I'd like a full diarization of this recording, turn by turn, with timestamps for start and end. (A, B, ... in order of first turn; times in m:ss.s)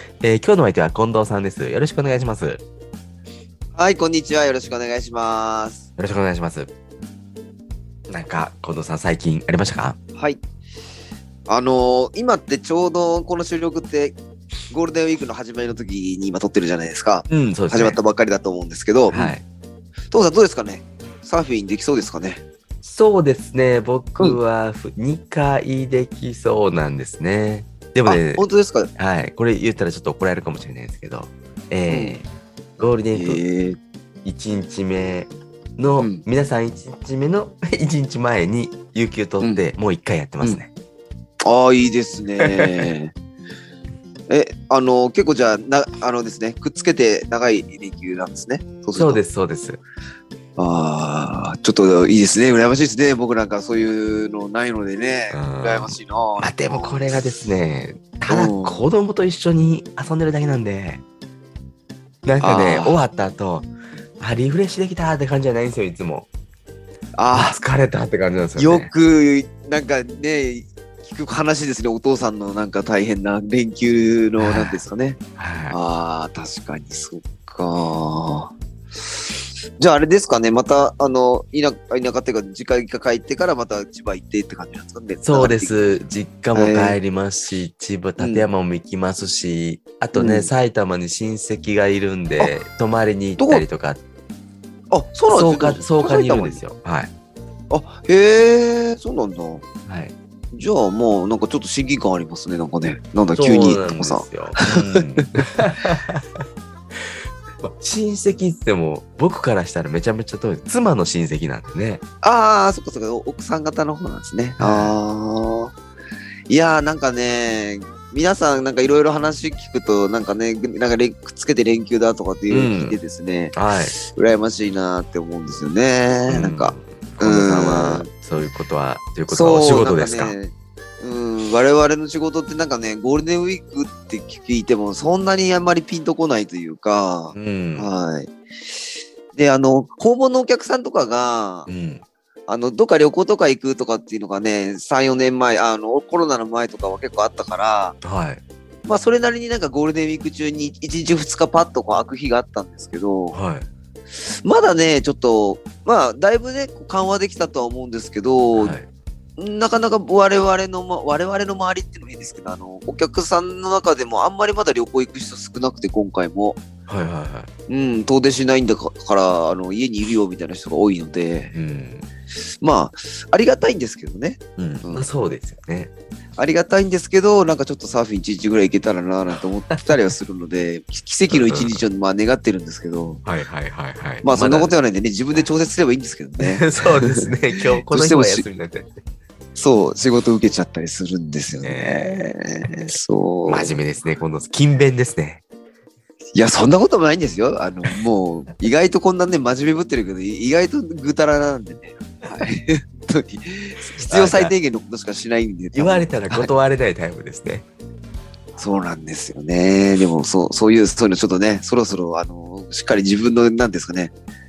0:00.2-0:02.6 A
0:03.8-0:05.8 B
0:06.0-0:06.7 A
0:08.1-0:10.0 A
0:11.5-0:14.2 B
0:14.7-0:19.4 B
0:17.3-0:18.0 A
0:19.1-0:19.4 A
0:20.1-0:22.4 B
0:22.8-0:28.4 A
0:28.0-0:28.9 B
0:29.0-0:32.2 A
0:31.9-0:32.2 B
0:32.8-0:33.4 A
0:33.2-0:33.8 B
0:34.2-0:40.7 A
0:36.0-0:36.2 B
0:41.4-0:43.1 B
0:42.4-0:42.9 A
0:44.3-0:49.2 B
0:49.0-0:49.8 A
0:50.6-0:56.9 B
0:55.3-1:01.0 A
0:58.3-0:58.8 B
1:02.2-1:03.7 A
1:02.4-1:03.0 B
1:04.2-1:06.3 A
1:07.2-1:07.6 B
1:07.3-1:08.9 A
1:08.6-1:18.5 B
1:14.4-1:14.8 A
1:15.4-1:15.8 A
1:19.8-1:26.0 B
1:25.2-1:34.0 A
1:26.5-1:27.0 B
1:28.2-1:28.5 B
1:30.2-1:30.5 B
1:33.4-1:33.6 B
1:34.9-1:36.6 B
1:35.3-1:37.1 A
1:37.7-1:39.6 B
1:39.9-1:40.1 A
1:40.5-1:45.2 B
1:43.4-1:46.4 A
1:46.9-1:52.0 A
1:52.2-1:55.7 B
1:54.6-1:55.0 A
1:56.5-2:08.1 B
2:02.5-2:03.0 A
2:03.5-2:04.0 A
2:06.3-2:10.4 A
2:09.3-2:18.3 B
2:17.3-2:17.9 A
2:19.4-2:21.7 B
2:21.7-2:22.0 A
2:22.5-2:28.0 B
2:28.0-2:28.4 A
2:28.9-2:33.4 B
2:33.3-2:33.7 A
2:34.4-2:38.8 B
2:38.6-2:38.9 A
2:39.4-2:46.6 B
2:46.9-2:47.5 A
2:47.7-2:51.5 B
2:51.5-2:52.1 A
2:52.6-2:55.1 B
2:54.6-2:55.9 A
2:56.4-3:03.2 B
3:01.3-3:01.8 A
3:03.2-3:04.8 A
3:04.2-3:08.5 B
3:06.4-3:08.9 A
3:09.6-3:13.8 B
3:11.6-3:12.3 A
3:13.5-3:15.4 A
3:16.4-3:26.5 B
3:23.9-3:24.5 A
3:25.7-3:27.6 A
3:28.6-3:34.1 B